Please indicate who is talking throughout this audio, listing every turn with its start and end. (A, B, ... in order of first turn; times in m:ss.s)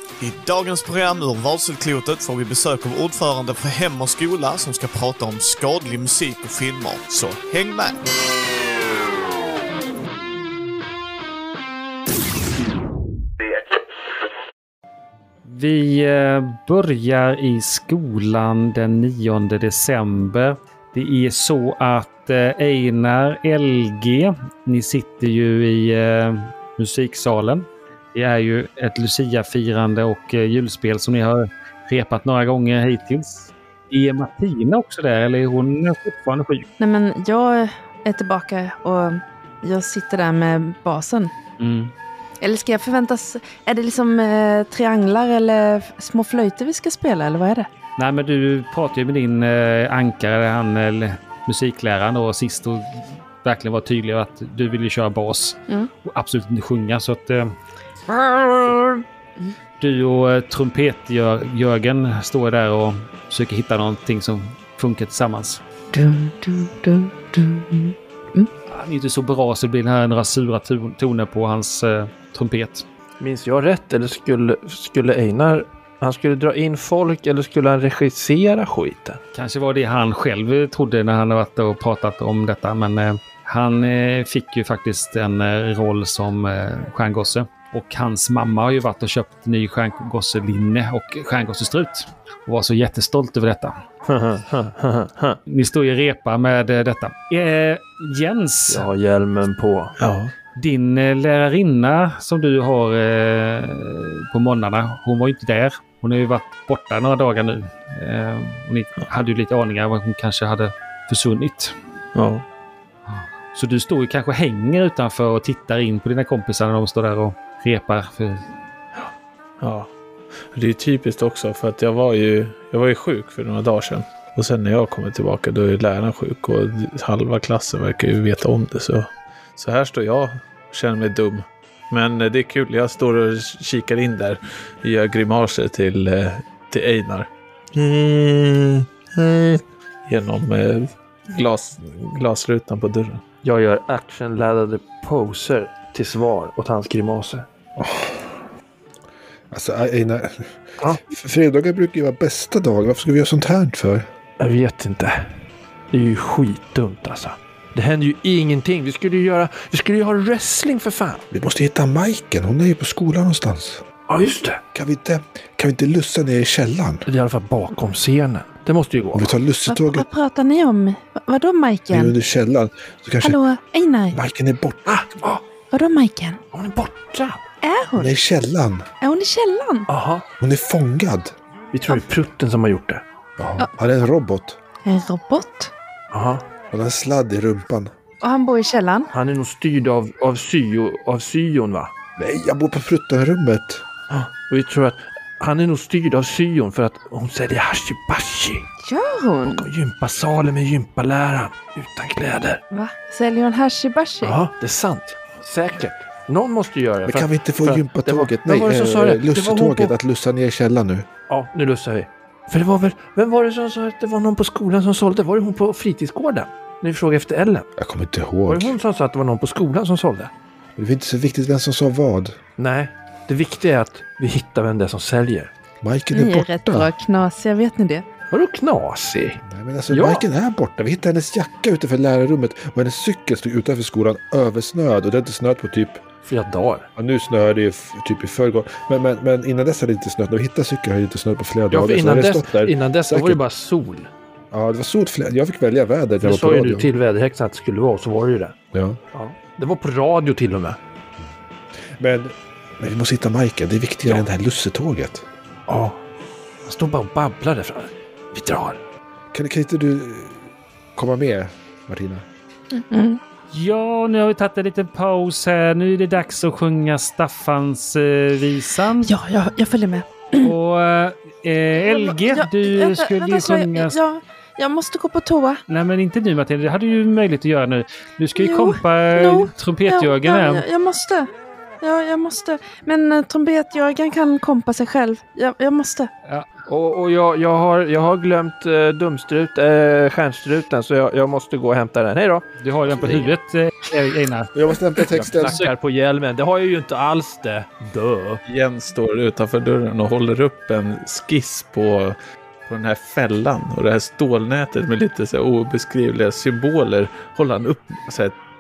0:00.2-0:08.0 A
0:15.4-0:36.7 B
0:36.8-0:41.3 C
0:41.6-0:41.9 B
0:42.4-0:47.7 C
0:48.0-0:57.6 B
0:58.1-0:59.5 C
0:59.8-1:05.6 B
1:05.9-1:08.5 C
1:08.7-1:12.8 B
1:13.2-1:19.2 D
1:19.3-1:33.8 B
1:34.1-1:35.4 D
1:35.5-1:38.9 B
1:38.7-1:39.9 D
1:40.0-1:40.3 E
1:40.6-1:51.8 B
1:52.2-1:52.4 E
1:53.1-1:58.5 B
1:59.0-1:59.9 E
2:00.5-2:23.2 E
2:23.4-2:27.5 D
2:27.8-2:28.3 F
2:29.5-2:34.1 F
2:34.4-2:35.3 D
2:35.9-2:41.3 D
2:41.3-2:43.8 F
2:44.1-2:44.6 D
2:44.7-2:47.0 F
2:47.1-2:49.3 D
2:49.1-2:50.1 F
2:49.7-2:52.2 C
2:51.9-2:53.4 F
2:53.2-2:54.2 C
2:54.1-2:54.9 F
2:54.9-2:55.4 D
2:55.7-2:56.4 C
2:56.5-2:57.4 D
2:57.6-2:58.2 C
2:58.0-2:58.9 F
2:59.0-2:59.9 C
2:59.9-3:00.3 D
3:00.4-3:01.3 F
3:01.7-3:03.0 D
3:03.4-3:04.6 F
3:04.8-3:05.7 C
3:06.1-3:06.4 D
3:06.7-3:07.9 F
3:08.2-3:09.1 C
3:09.1-3:11.9 D
3:12.2-3:13.8 F
3:14.1-3:18.7 D
3:18.8-3:19.7 C
3:19.4-3:22.6 D
3:22.7-3:24.4 C
3:24.2-3:30.0 D
3:27.0-3:31.1 F
3:31.3-3:37.7 D
3:37.8-3:38.8 F
3:38.5-3:40.3 D
3:40.8-3:42.4 F
3:42.6-3:45.5 D
3:45.8-3:46.9 F
3:46.1-3:48.0 C
3:48.3-3:50.2 D
3:49.4-3:56.0 F
3:56.2-3:56.9 D
3:57.0-4:03.4 F
4:01.7-4:04.1 D
4:04.5-4:06.9 F
4:06.2-4:08.6 D
4:08.7-4:09.0 F
4:09.1-4:10.8 D
4:12.0-4:15.2 F
4:15.7-4:16.0 D
4:16.7-4:18.8 D
4:19.3-4:22.2 F
4:22.7-4:23.2 C
4:23.5-4:29.1 B
4:29.0-4:30.5 C
4:30.4-4:34.0 B
4:31.9-4:35.6 C
4:35.7-4:40.6 B
4:38.4-4:41.3 C
4:41.8-4:46.1 C
4:46.7-4:53.3 D
4:52.6-4:54.5 B
4:54.5-4:55.7 F
4:55.1-4:58.4 D
4:55.1-4:55.6 B
4:58.5-5:08.4 E